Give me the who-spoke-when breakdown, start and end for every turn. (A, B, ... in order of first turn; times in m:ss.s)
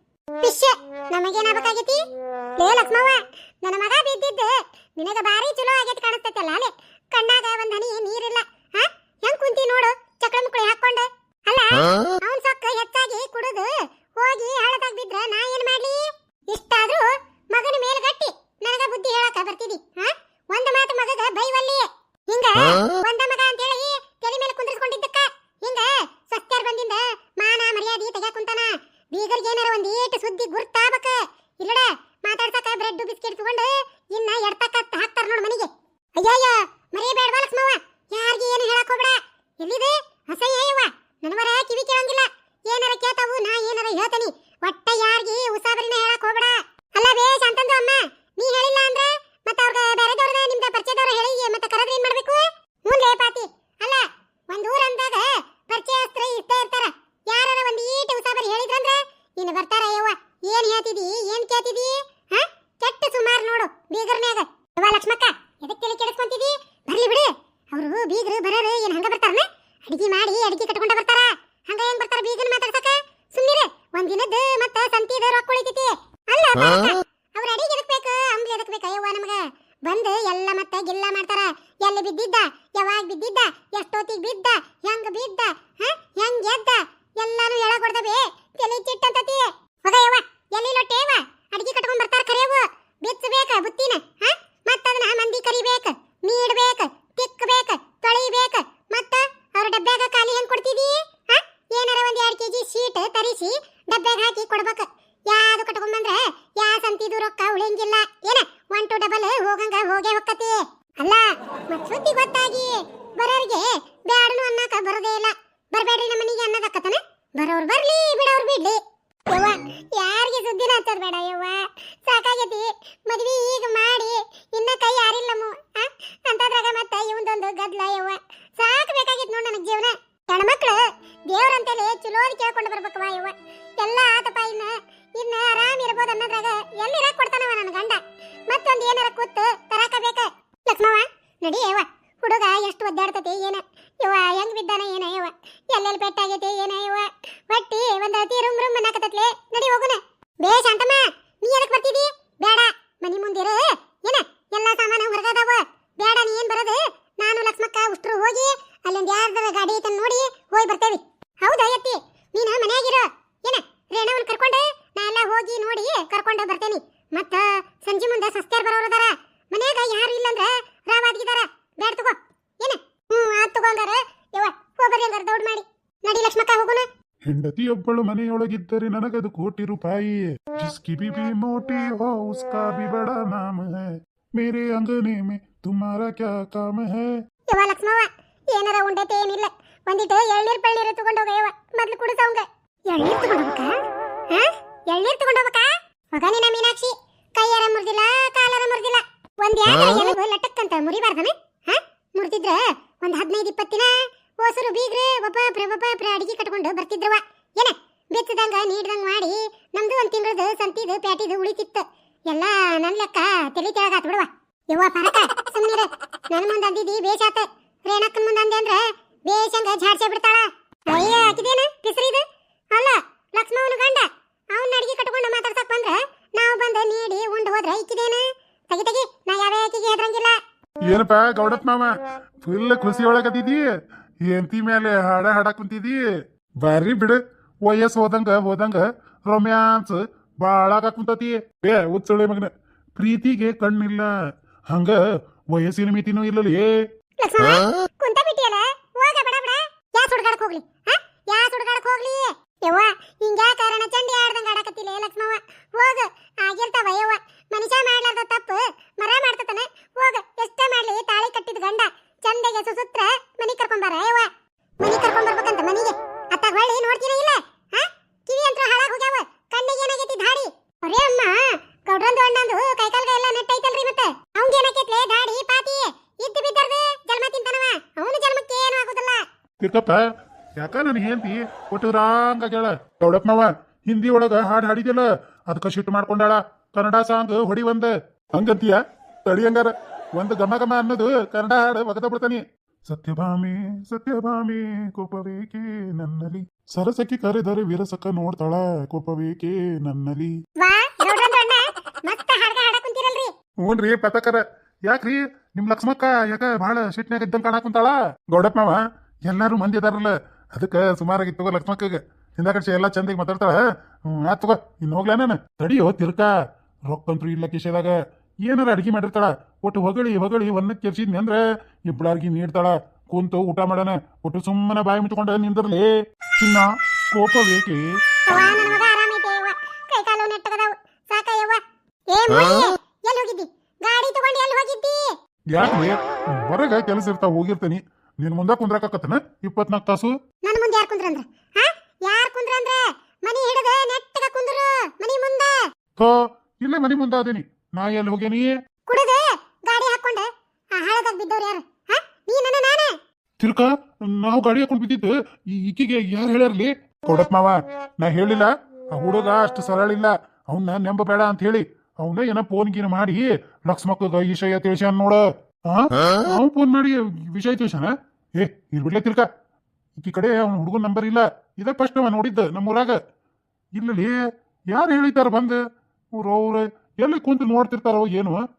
0:00.4-2:56.9 A
2:57.3-3:07.2 B
3:07.5-3:50.4 A
3:50.9-3:53.7 B
3:54.2-3:56.0 B
3:56.6-4:04.1 B
4:04.7-4:05.0 B
4:05.5-4:06.7 B
4:07.2-4:39.3 A
4:39.6-5:00.4 B
5:00.6-5:03.3 A
5:03.6-5:16.3 B
5:16.9-5:27.9 B
5:28.3-5:35.2 A
5:35.5-5:40.1 B
5:40.4-5:45.6 A
5:46.0-5:48.5 B
5:48.9-5:53.0 A
5:53.4-6:09.3 B
6:10.0-6:13.0 B
6:13.8-6:14.2 B
6:14.7-6:15.6 B
6:16.2-6:18.4 B